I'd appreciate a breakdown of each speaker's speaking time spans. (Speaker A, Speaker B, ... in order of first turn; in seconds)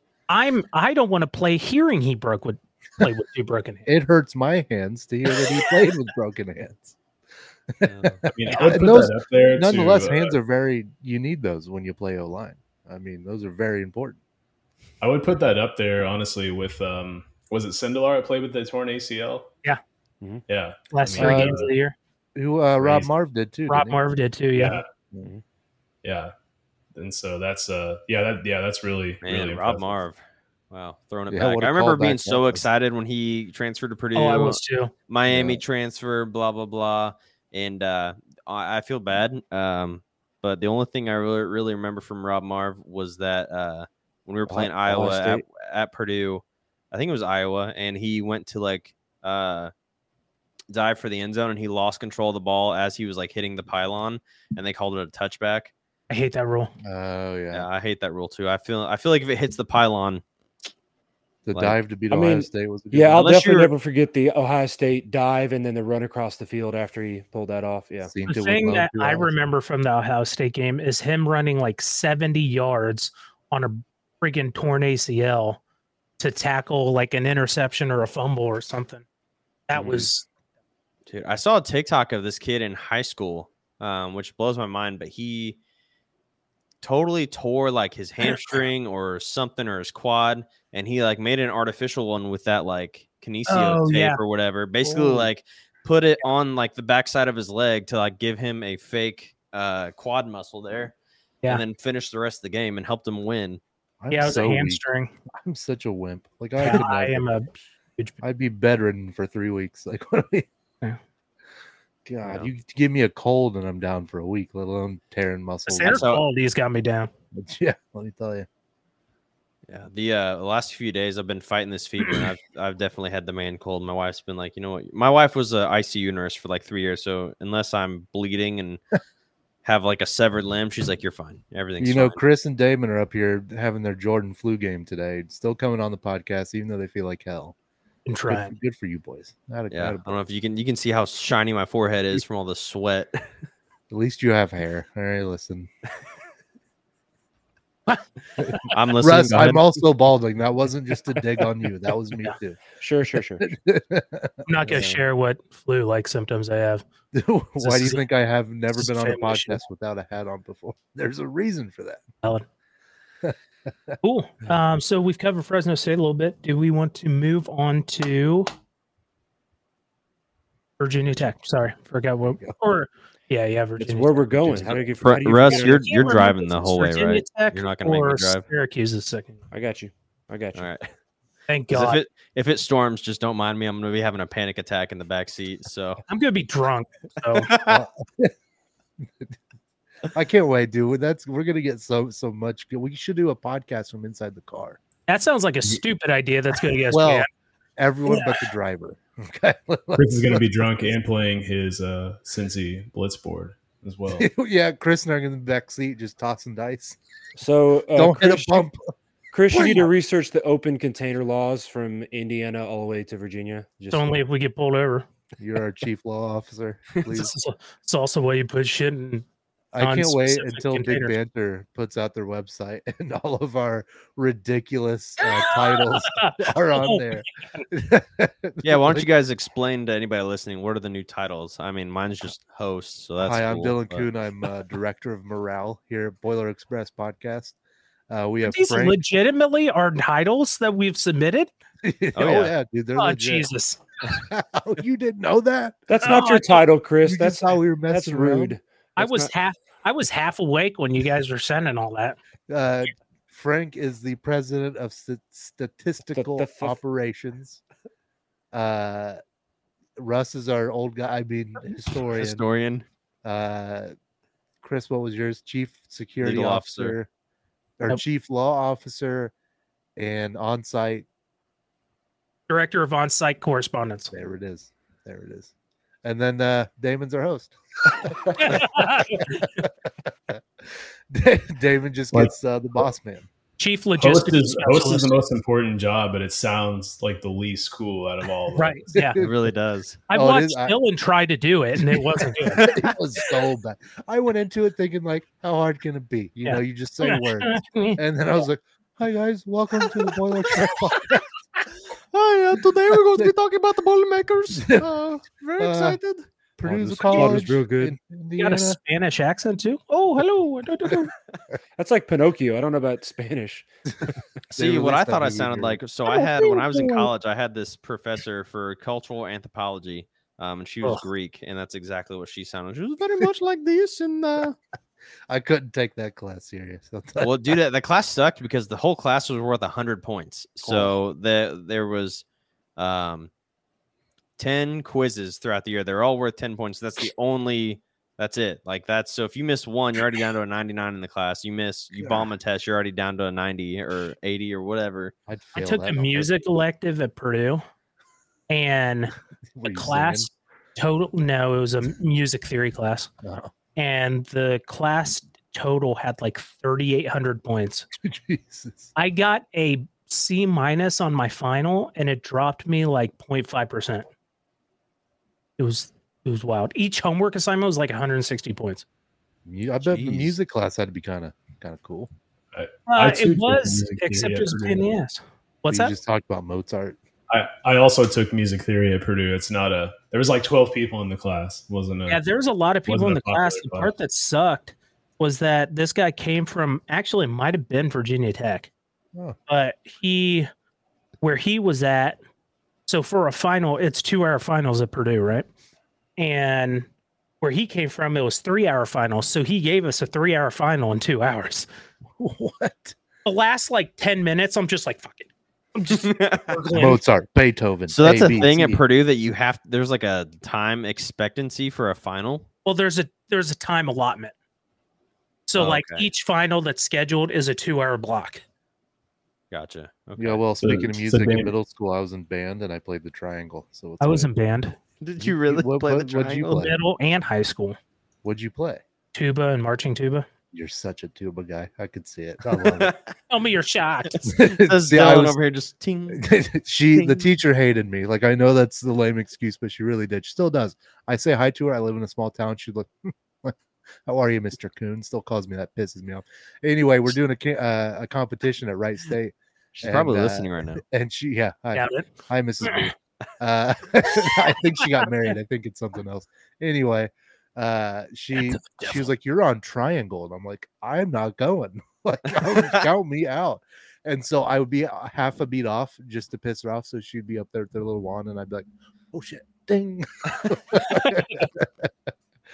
Speaker A: 0.3-3.9, 20.9-21.9, 23.7-24.8, 34.1-34.9, 56.1-56.7, 68.3-75.6, 76.2-79.0, 79.7-80.3, 93.5-94.2, 104.1-105.1, 106.6-108.2, 115.7-117.1, 138.1-138.5, 147.9-148.7, 154.4-156.8, 157.6-158.0, 158.7-159.6, 164.0-168.5, 170.8-174.6, 175.4-179.4, 181.5-182.0, 186.1-187.5, 195.1-197.3, 198.1-198.4, 213.9-215.1, 217.1-219.2, 219.8-221.1, 225.2-227.7, 238.4-241.5, 242.9-243.8, 246.0-246.6, 249.0-252.2, 272.5-274.1, 278.3-279.5, 283.6-285.2, 288.5-289.2, 290.1-292.8, 296.4-298.0, 307.1-307.4, 308.4-311.1, 316.1-317.1, 345.6-347.6, 348.5-353.1, 353.8-357.9, 358.9-364.1, 365.6-368.8, 372.9-375.9, 382.1-388.7, 389.5-390.5, 391.2-392.2, 392.9-395.5, 396.2-396.9, 397.4-401.7, 403.2-407.0, 412.6-414.3, 415.5-418.4, 424.0-424.8, 426.6-427.8, 429.1-430.3, 433.3-434.3, 451.7-452.1, 452.6-452.9, 470.8-471.3
Speaker B: 3.9-7.0, 7.8-14.2, 21.2-21.6, 22.4-24.0, 31.3-32.6, 35.3-35.6, 56.8-57.7, 61.5-63.3, 68.0-69.3, 79.7-80.0, 94.8-95.3, 104.0-107.4, 108.2-110.5, 112.0-116.0, 117.3-118.5, 131.8-137.5, 138.3-140.1, 143.9-145.7, 148.4-152.6, 153.4-154.9, 157.1-162.0, 174.4-174.7, 187.7-188.3, 190.1-194.8, 196.9-200.9, 204.2-207.0, 207.9-208.9, 209.5-209.9, 215.4-217.3, 219.7-229.1, 233.2-237.6, 238.1-239.0, 241.8-243.5, 244.0-246.1, 247.0-248.5, 252.5-257.6, 258.5-259.2, 260.0-262.4, 263.2-263.9, 264.6-267.1, 267.8-269.3, 269.9-271.1, 274.1-275.5, 276.0-283.3, 288.9-289.3, 290.1-290.7, 292.1-301.2, 304.5-304.9, 305.6-306.0, 306.6-308.8, 314.5-315.8, 325.3-327.6, 330.6-330.9, 342.0-342.3, 345.3-346.3, 349.5-350.3, 353.2-353.5, 357.9-358.9, 369.4-372.1, 375.7-377.0, 402.2-402.9, 406.7-408.8, 420.2-424.3, 425.2-426.8, 428.2-428.8, 430.5-432.9, 434.2-435.4, 436.1-443.5, 444.1-471.9
Speaker C: 7.8-8.3, 29.2-49.7, 50.7-55.7, 57.5-60.2, 61.5-61.8, 63.1-63.7, 81.1-85.6, 86.8-100.9, 101.5-103.6, 112.2-112.5, 115.9-116.2, 119.7-128.8, 129.6-132.2, 139.7-143.3, 148.7-149.8, 174.6-178.4, 180.5-180.9, 181.7-186.0, 187.3-187.8, 228.6-234.1, 242.1-242.5, 262.1-262.9, 266.2-266.9, 289.1-290.0, 302.1-307.1, 314.5-324.6, 327.2-332.2, 332.8-333.3, 334.4-345.1, 369.8-370.4, 405.9-406.5, 407.9-412.5, 415.6-416.0, 419.5-420.4, 425.0-426.7, 432.6-433.1, 434.4-436.3, 436.9-437.2, 449.8-450.8
Speaker D: 8.3-10.3, 15.0-19.5, 20.5-21.7, 22.8-23.1, 24.5-24.8, 26.0-26.3, 26.9-30.0, 199.9-204.3, 284.0-288.9, 372.5-374.9, 377.3-382.2, 382.9-383.9, 420.6-421.5
Speaker E: 44.5-45.4, 62.1-68.1, 152.8-153.4, 173.8-175.9, 179.5-180.8, 207.3-208.7, 209.3-214.2, 245.9-249.3, 256.1-256.8, 307.1-307.9, 311.8-313.7